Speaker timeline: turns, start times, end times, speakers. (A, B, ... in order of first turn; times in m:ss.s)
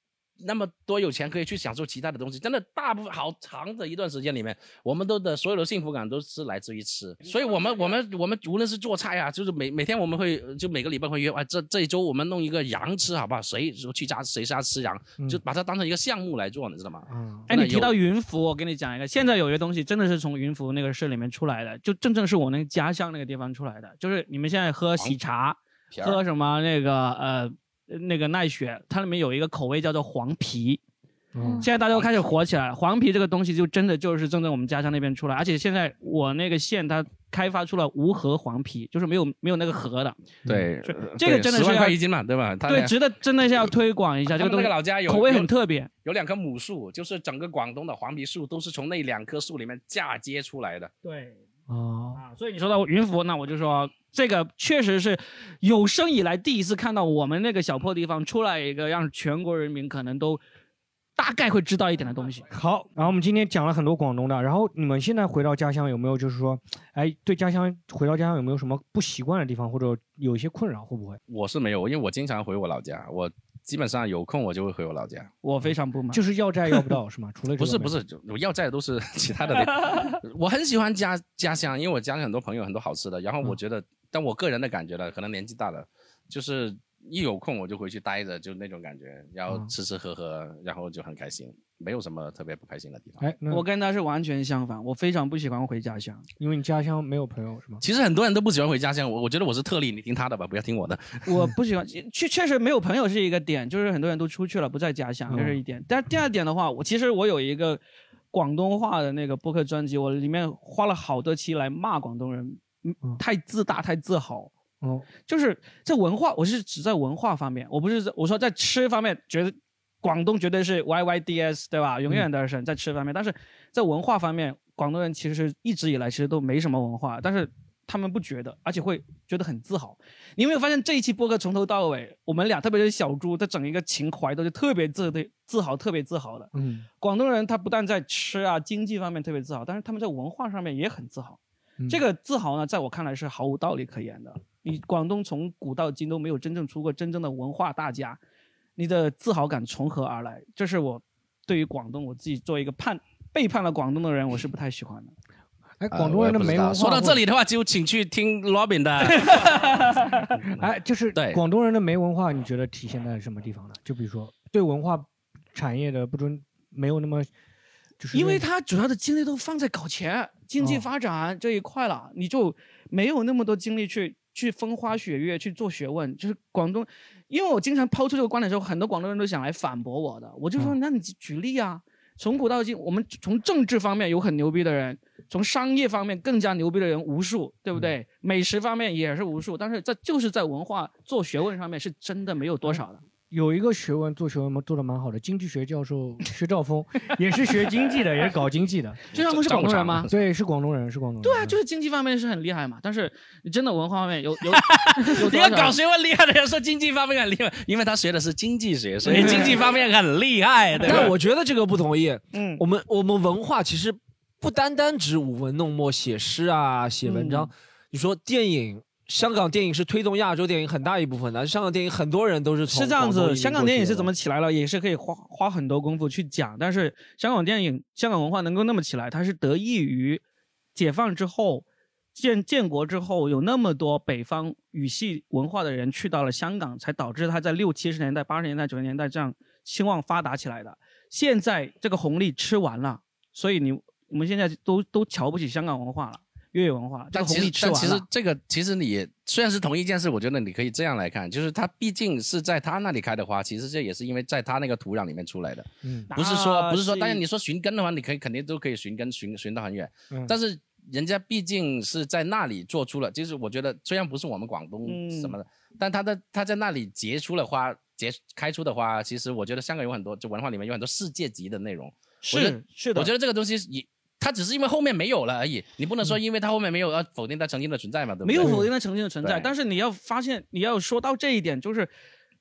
0:00.4-0:18.0 A
0:17.1-0:17.5 B
0:17.5-0:30.8 C
0:25.9-0:26.2 A
0:31.3-0:31.6 B
0:31.6-0:40.2 C
0:31.8-0:32.2 A
0:40.5-0:43.0 A
0:40.8-0:42.0 C
0:42.7-0:45.9 C
0:44.3-0:45.5 A
0:46.0-0:50.9 A
0:51.0-0:51.4 C
0:51.7-0:52.2 B
0:52.2-1:00.4 C
1:01.2-1:02.5 C
1:02.5-1:11.2 B
1:11.3-1:15.3 A
1:15.4-1:16.2 C
1:16.1-1:18.0 B
1:17.6-1:33.2 A
1:33.2-1:33.6 B
1:33.5-1:36.3 C
1:36.4-1:37.8 B
1:37.8-1:41.2 A
1:41.2-1:47.8 C
1:45.3-1:45.6 B
1:48.3-1:54.5 C
1:54.8-1:55.1 B
1:55.3-2:28.2 C
2:16.5-2:16.9 B
2:21.8-2:22.0 B
2:28.8-2:35.1 C
2:35.8-2:37.2 B
2:35.9-2:39.6 A
2:39.1-2:40.3 C
2:40.6-2:47.3 B
2:41.2-2:41.4 A
2:48.0-2:48.4 B
2:48.1-3:13.0 C
2:50.6-2:50.9 B
3:12.6-3:19.0 B
3:19.1-3:20.1 C
3:19.1-3:20.2 A
3:19.6-3:21.6 B
3:21.2-3:25.8 C
3:24.5-3:31.1 A
3:29.1-3:29.6 C
3:30.8-3:44.1 D
3:32.3-3:32.6 C
3:37.0-3:37.5 C
3:42.7-3:50.2 C
3:50.8-4:08.0 C
4:07.1-4:38.7 A
4:15.8-4:16.1 B
4:16.1-4:17.2 C
4:24.9-4:25.4 C
4:32.2-4:33.1 C
4:38.2-4:41.9 C
4:38.4-4:38.7 B
4:39.2-4:39.5 A